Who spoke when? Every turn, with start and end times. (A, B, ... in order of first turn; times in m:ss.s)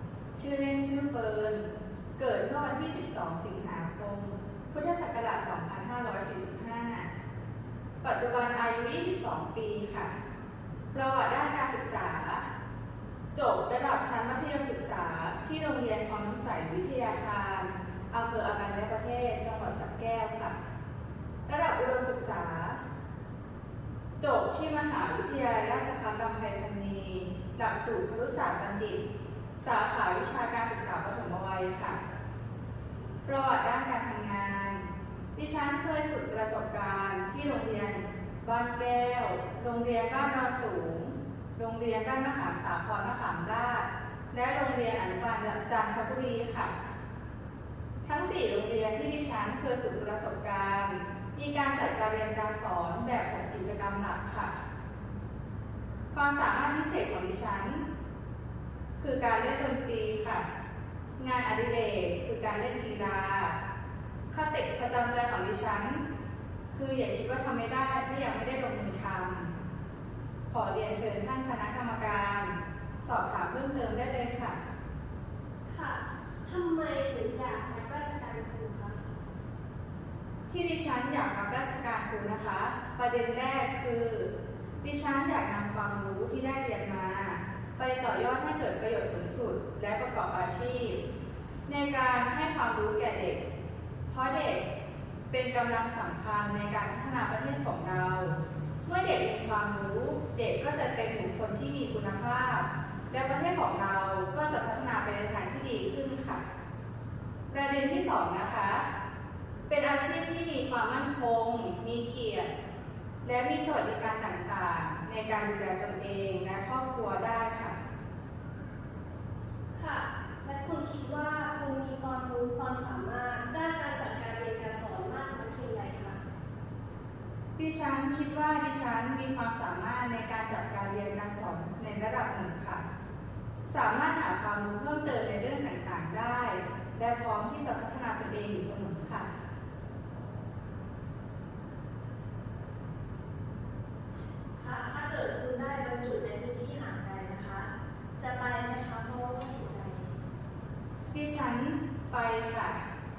0:00.3-0:07.1 A
0:08.0-0:10.1 A
0:10.9-0:12.4 A
0:13.3-0:20.6 A
0:21.5-0:22.8 A
0:24.2-0:29.0 A
0:29.6-0:32.0 A
0:33.2-0:34.8 A
0:35.4-0:46.7 A
0:48.0-0:54.5 A
0:56.1-0:57.8 A
0:59.0-1:00.4 A
1:01.2-1:03.6 A
1:04.3-1:06.0 A
1:06.7-1:09.5 A
1:10.5-1:14.6 A
1:15.7-1:16.8 B
1:17.6-1:18.8 B
1:20.5-1:24.3 A
1:24.8-1:31.0 A
1:31.7-1:33.4 A
1:34.1-1:34.6 A
1:35.3-1:46.4 A
1:47.5-1:48.9 A
1:49.7-1:52.5 A
1:53.2-1:57.8 A
1:59.7-2:01.8 B
2:03.6-2:04.6 B
2:07.6-2:12.8 A
2:13.7-2:19.3 A
2:24.6-2:30.1 C
2:31.1-2:32.8 A